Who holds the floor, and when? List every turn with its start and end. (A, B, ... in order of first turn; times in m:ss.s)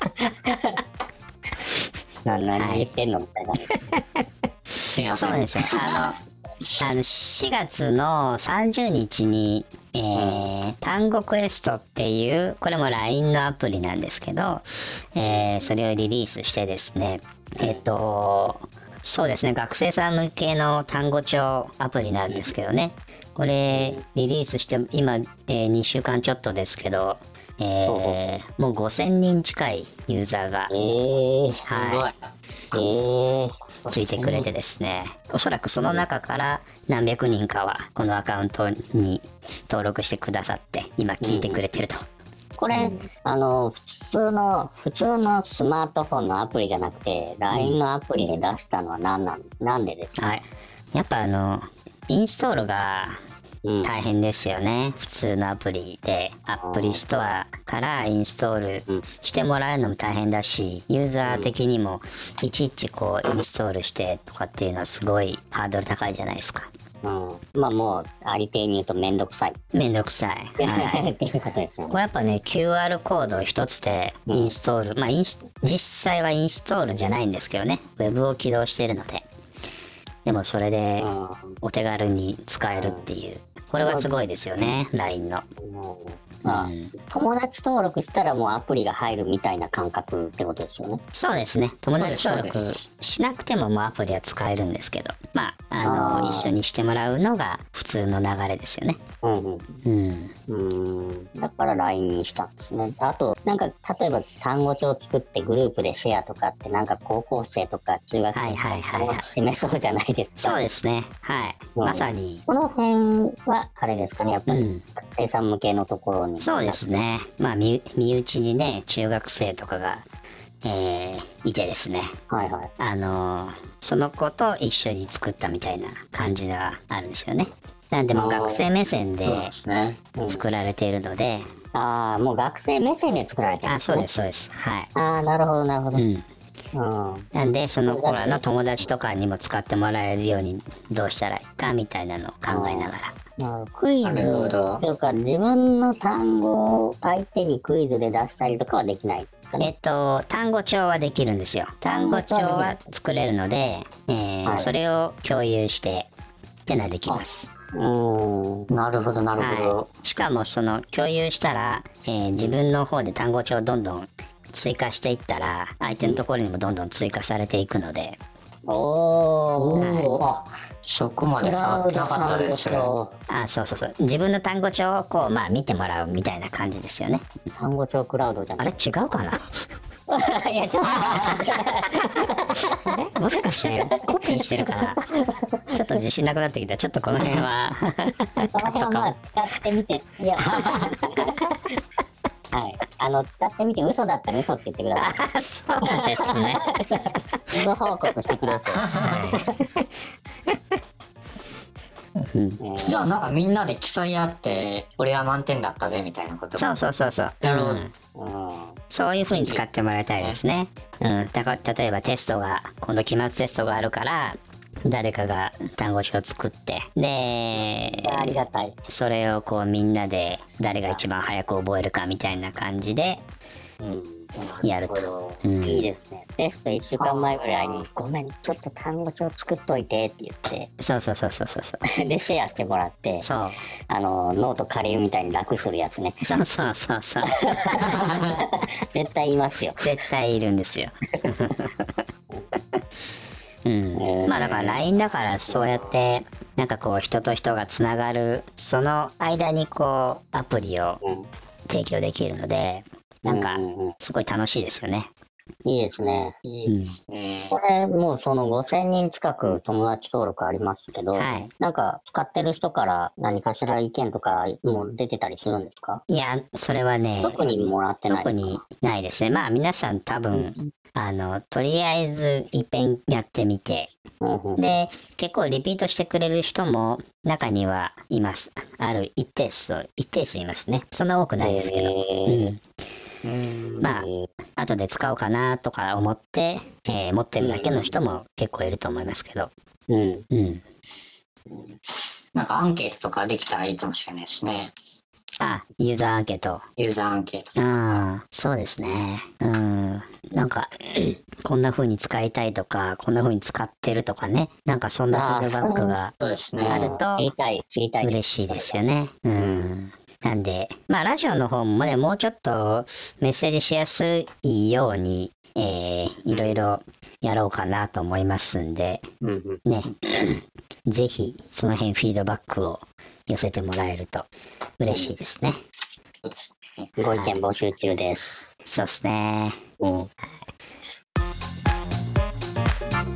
0:00.4-0:00.7 A
0:02.2-0:03.7 A
0:02.6-0:02.9 B
0:03.9-0:04.2 B
0:04.8-0:06.1 C
0:05.1-0:06.2 B
0:06.8-0:30.7 B
0:10.2-0:10.5 A
0:23.7-0:24.0 A
0:27.9-0:28.2 A
0:30.7-0:31.6 A
0:31.5-0:32.9 C
0:31.7-0:32.1 B
0:32.7-0:33.6 A
0:33.8-0:34.5 C
0:33.9-0:42.0 B
0:41.2-0:41.6 A
0:42.6-0:50.2 A
0:47.5-0:47.8 B
0:50.2-0:53.2 B
0:53.6-0:53.9 A
0:53.8-1:06.7 B
0:56.6-0:57.0 A
1:01.2-1:01.5 A
1:07.0-1:09.6 A
1:09.7-1:11.0 B
1:10.6-1:12.0 A
1:11.9-1:19.2 B
1:20.2-1:21.1 B
1:21.0-1:21.6 A
1:21.6-1:25.4 B
1:22.8-1:23.1 A
1:23.8-1:24.1 A
1:25.6-1:31.0 A
1:26.4-1:26.9 B
1:31.1-1:39.0 B
1:32.0-1:32.8 C
1:35.8-1:36.5 A
1:39.2-1:39.7 A
1:39.8-1:40.3 B
1:40.5-1:50.6 A
1:48.3-1:49.3 B
1:50.4-1:52.4 B
1:51.8-1:56.8 A
1:54.5-1:54.8 B
1:56.4-2:00.0 B
2:00.6-2:02.1 B
2:02.3-2:02.7 A
2:02.8-2:09.5 B
2:08.2-2:08.6 A
2:09.2-2:10.0 C
2:10.2-2:10.5 A
2:10.3-2:11.5 B
2:11.7-2:14.1 A
2:13.7-2:14.9 B
2:15.0-2:16.1 A
2:15.9-2:16.3 B
2:16.7-2:17.3 A
2:17.3-2:23.2 B
2:17.9-2:18.4 A
2:22.5-2:29.7 A
2:24.0-2:24.8 C
2:29.6-2:36.1 B
2:31.9-2:32.7 A
2:34.5-2:34.7 A
2:36.7-2:37.5 B
2:37.1-2:38.7 A
2:38.7-2:39.9 C
2:39.4-2:48.2 B
2:48.7-2:50.2 A
2:49.6-2:52.9 C
2:49.8-2:50.2 B
2:51.4-2:53.2 A
2:53.3-2:57.2 B
2:57.6-2:58.7 A
2:58.6-2:59.4 B
3:00.1-3:03.0 A
3:02.8-3:05.0 B
3:03.7-3:05.6 A
3:05.7-3:09.1 B
3:08.5-3:10.8 A
3:10.4-3:11.3 B
3:12.5-3:15.2 A
3:15.0-3:16.7 B
3:15.8-3:19.5 A
3:18.8-3:19.3 C
3:19.0-3:19.5 B
3:22.2-3:22.6 B
3:22.6-3:23.1 A
3:22.8-3:26.8 C
3:26.6-3:27.9 B
3:27.4-3:27.9 C
3:28.2-3:28.8 A
3:28.9-3:43.2 B
3:29.3-3:29.6 C
3:37.8-3:38.8 A
3:43.8-3:44.3 A
3:44.4-3:45.4 C
3:44.6-3:45.9 B
3:45.6-3:50.7 A
3:47.0-3:47.9 C
3:50.8-3:51.8 B
3:52.0-3:53.3 A
3:53.2-3:53.6 B
3:53.9-3:56.3 A
3:56.2-3:57.9 B
3:57.5-3:59.8 A
3:59.8-4:02.0 B
4:03.6-4:11.0 B
4:04.0-4:04.9 A
4:11.0-4:11.3 A
4:11.7-4:15.1 B
4:13.2-4:14.0 A
4:15.6-4:16.4 A
4:16.4-4:17.6 C
4:16.7-4:17.0 B
4:17.5-4:26.0 A
4:21.1-4:21.5 B
4:26.1-4:27.5 B
4:27.2-4:28.6 A
4:28.1-4:33.9 B
4:34.2-4:34.6 A
4:34.6-4:42.6 B
4:41.4-4:42.5 A
4:43.2-4:43.9 C
4:43.8-4:44.2 A
4:43.8-4:44.1 B
4:44.6-4:49.5 B
4:47.4-4:47.9 A
4:49.9-4:50.2 A
4:50.3-4:50.6 B
4:52.4-4:54.7 C
4:55.4-4:56.6 B
4:56.8-4:57.8 C
4:57.6-5:07.3 B
5:05.1-5:06.0 A
5:06.2-5:06.9 C
5:06.6-5:08.8 A
5:08.0-5:19.0 B
5:09.4-5:09.7 A
5:16.3-5:16.6 A
5:19.2-5:19.6 A
5:19.7-5:24.3 B
5:24.8-5:25.6 B
5:26.2-5:26.9 C
5:27.0-5:28.5 A
5:27.0-5:27.4 B
5:28.7-5:29.6 B
5:29.8-5:30.1 A